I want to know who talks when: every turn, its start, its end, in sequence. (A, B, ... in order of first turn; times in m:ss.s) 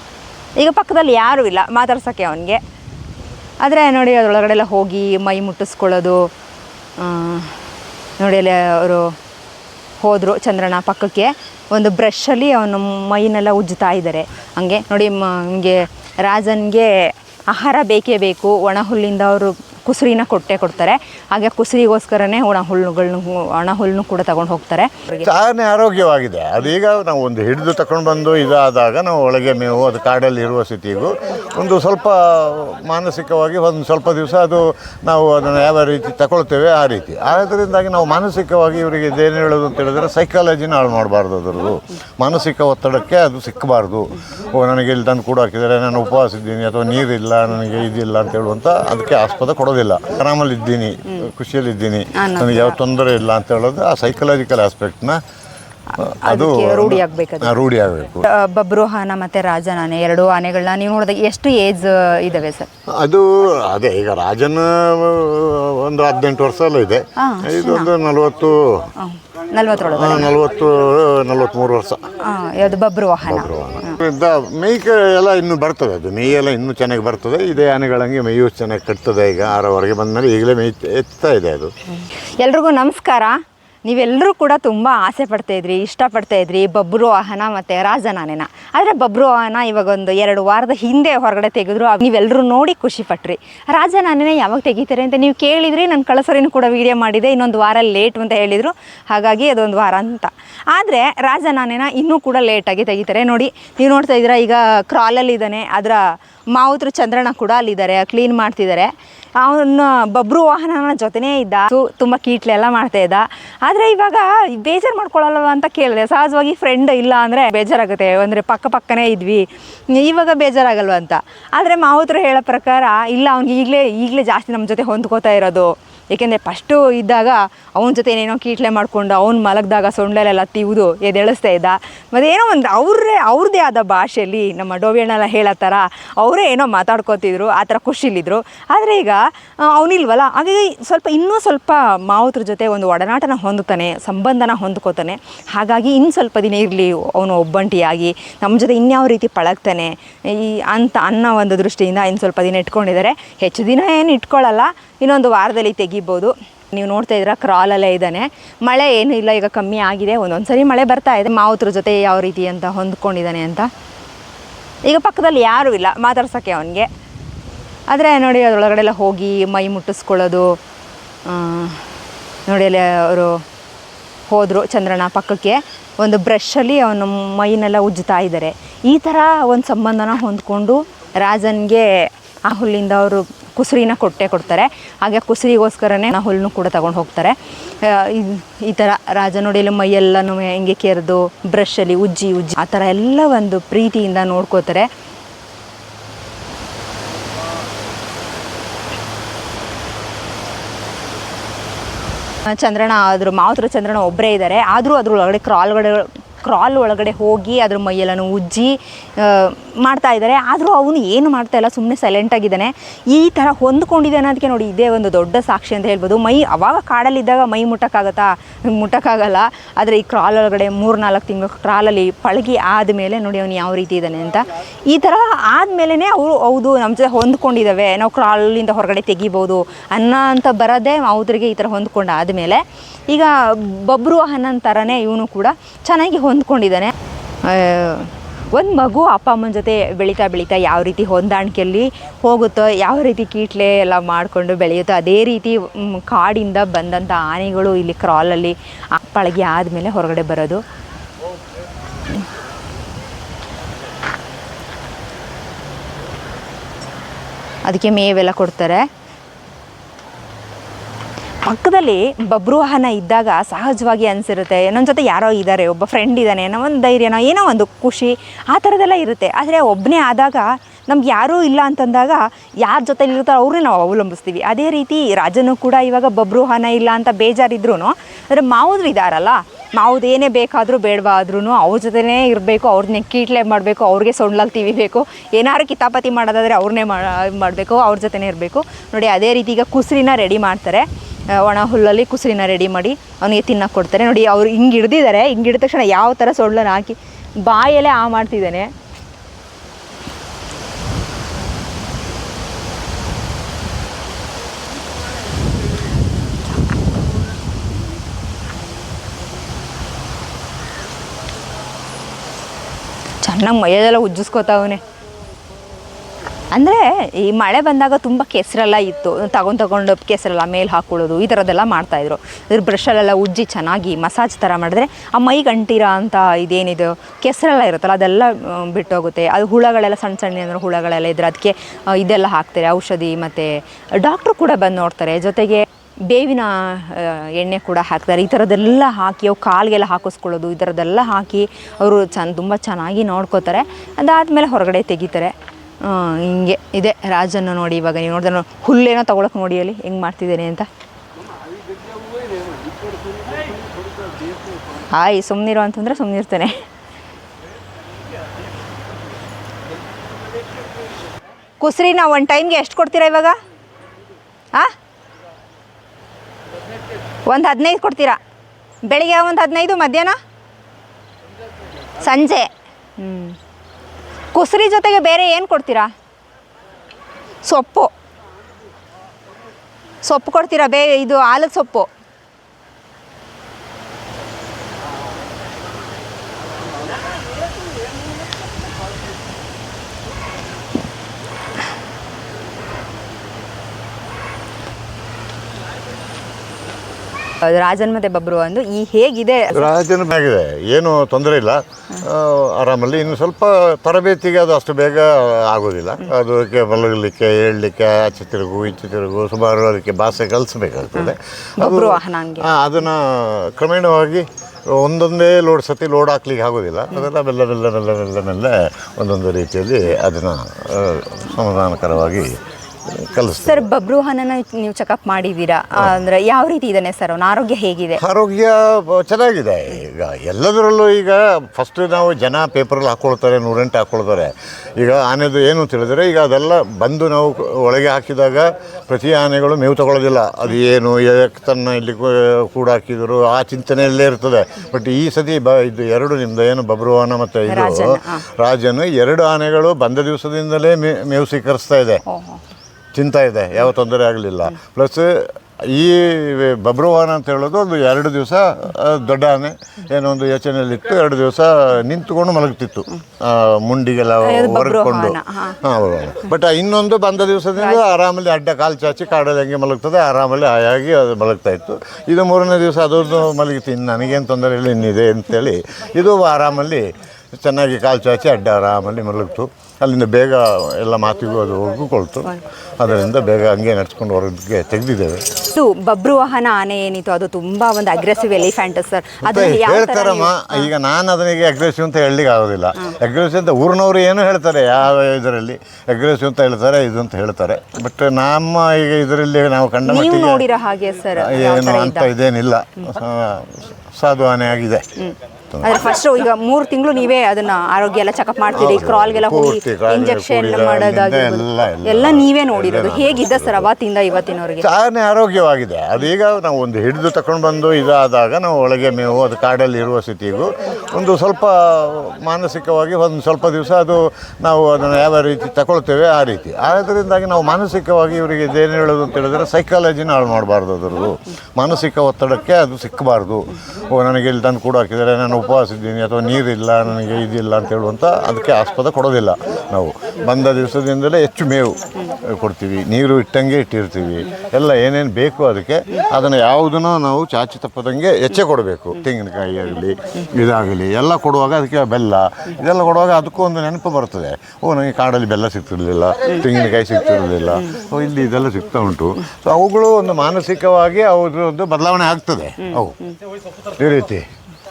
0:00.6-0:02.6 A
0:03.6-0:06.3 A
0:07.0-0:07.6 A
0:08.2-0:09.2 A
0:10.0-0:25.3 A
0:25.2-0:55.2 B
0:52.1-0:52.8 A
0:55.9-0:57.6 A
0:56.0-0:58.3 B
0:58.2-1:02.7 A
1:03.0-1:08.9 B
1:07.2-1:07.9 A
1:09.0-1:10.3 A
1:09.8-1:12.1 B
1:12.2-1:14.0 A
1:13.2-1:21.7 B
1:22.4-2:43.7 A
2:44.8-2:46.9 A
2:47.9-2:50.6 A
2:51.2-2:51.9 A
2:52.5-2:53.4 A
2:54.3-3:14.9 A
3:22.4-4:10.6 A
4:17.6-4:18.9 A
4:21.4-4:58.7 A
5:13.2-5:14.8 A
5:16.5-5:50.7 A
5:54.8-5:56.6 A
6:01.6-6:03.3 A
6:07.3-6:08.2 A
6:08.9-6:10.2 A
6:12.0-6:13.4 A
6:14.3-6:15.9 A
6:17.4-6:17.9 A
6:20.0-6:21.9 A
6:37.4-6:39.7 A
6:39.5-7:03.6 B
6:51.0-6:52.5 A
7:03.4-7:08.0 A
7:08.0-7:32.0 B
7:27.5-7:28.2 A
7:32.1-7:32.4 A
7:32.9-8:05.3 B
7:44.2-7:45.6 A
8:05.5-8:10.7 A
8:09.2-8:20.4 B
8:19.8-8:22.1 A
8:21.2-8:24.9 B
8:25.0-8:34.7 A
8:25.5-8:25.8 B
8:28.5-8:33.7 B
8:34.6-9:23.0 B
9:23.8-9:24.2 B